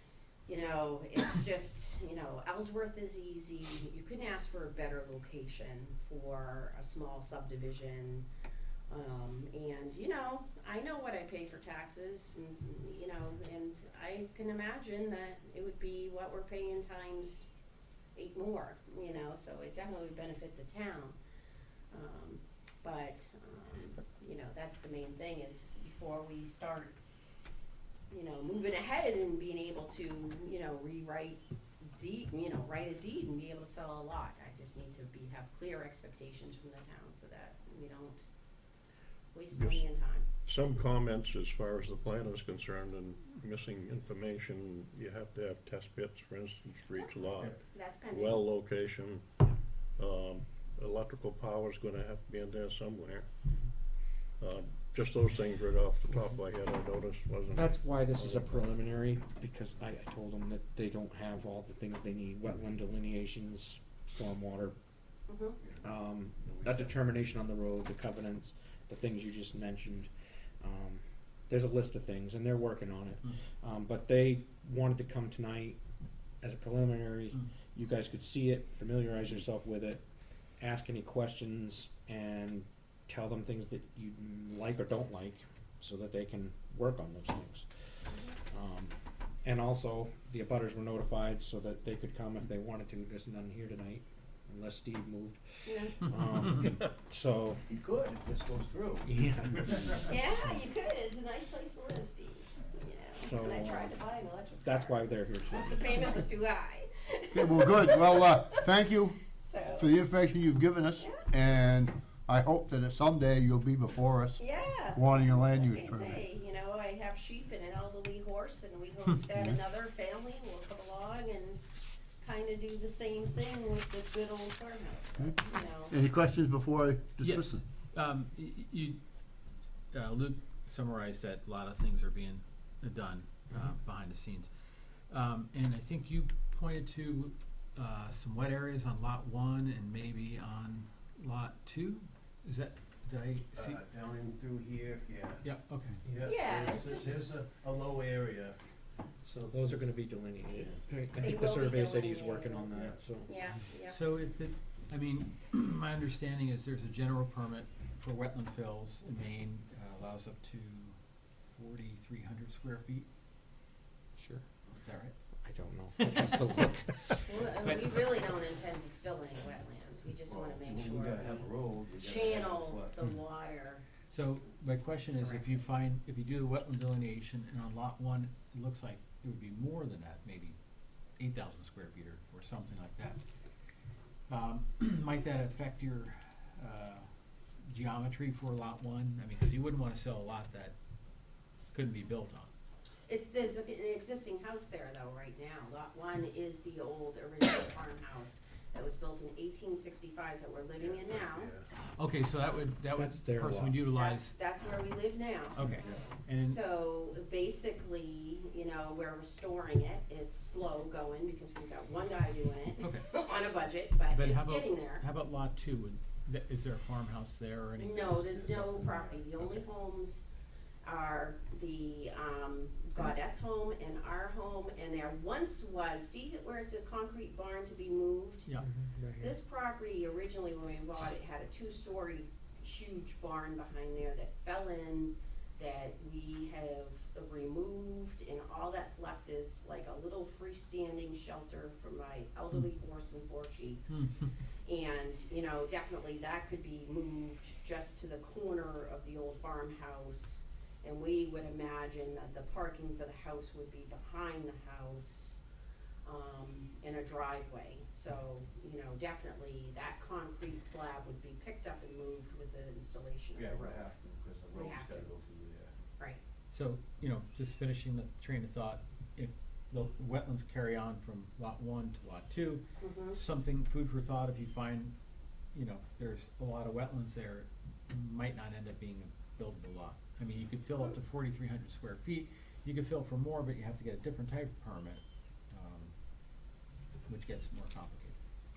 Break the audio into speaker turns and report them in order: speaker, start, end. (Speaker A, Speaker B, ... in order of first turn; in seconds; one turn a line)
Speaker A: 0.5-8.3
Speaker A: 8.9-17.5
Speaker A: 18.1-21.2
Speaker A: 21.9-26.9
Speaker A: 28.1-38.3
Speaker A: 39.3-40.2
Speaker B: 39.5-39.8
Speaker B: 40.5-49.4
Speaker A: 47.7-48.4
Speaker B: 50.0-53.7
Speaker B: 54.4-58.7
Speaker C: 57.5-64.8
Speaker A: 65.3-65.6
Speaker D: 65.6-66.9
Speaker C: 65.8-75.8
Speaker C: 76.4-80.0
Speaker C: 80.6-87.9
Speaker A: 88.1-88.4
Speaker C: 88.5-97.6
Speaker A: 95.6-96.0
Speaker D: 97.7-100.0
Speaker C: 99.0-100.0
Speaker A: 100.0-108.7
Speaker C: 103.2-104.0
Speaker C: 104.6-106.2
Speaker E: 107.3-114.4
Speaker A: 109.4-109.9
Speaker A: 111.0-111.3
Speaker A: 114.4-121.6
Speaker E: 114.9-116.2
Speaker A: 122.2-126.0
Speaker E: 125.9-127.6
Speaker F: 127.2-129.0
Speaker F: 129.9-143.8
Speaker D: 143.5-148.6
Speaker F: 145.4-146.0
Speaker A: 146.2-147.2
Speaker D: 149.2-149.9
Speaker C: 149.5-153.3
Speaker D: 150.4-150.8
Speaker A: 151.2-152.7
Speaker D: 152.7-153.0
Speaker A: 153.2-154.0
Speaker F: 153.9-161.0
Speaker F: 161.5-163.1
Speaker C: 164.2-164.4
Speaker F: 164.7-165.1
Speaker C: 165.4-168.0
Speaker A: 167.2-173.8
Speaker D: 170.2-173.0
Speaker F: 174.1-180.6
Speaker A: 175.2-175.6
Speaker F: 181.2-183.2
Speaker F: 184.3-187.1
Speaker F: 187.7-190.7
Speaker F: 191.7-192.5
Speaker A: 193.1-201.5
Speaker D: 200.8-201.7
Speaker F: 201.7-204.3
Speaker C: 202.9-203.8
Speaker A: 203.9-205.8
Speaker F: 205.5-206.6
Speaker D: 205.7-206.0
Speaker A: 206.4-215.1
Speaker F: 212.8-213.2
Speaker F: 214.1-219.6
Speaker A: 217.8-220.2
Speaker D: 218.6-219.2
Speaker A: 220.8-228.5
Speaker C: 228.6-229.3
Speaker A: 229.2-243.9
Speaker F: 243.9-244.3
Speaker A: 244.6-255.4
Speaker A: 256.1-263.9
Speaker D: 263.4-265.8
Speaker A: 264.5-265.1
Speaker F: 266.5-274.9
Speaker A: 272.8-273.2
Speaker F: 275.5-285.9
Speaker F: 287.1-288.2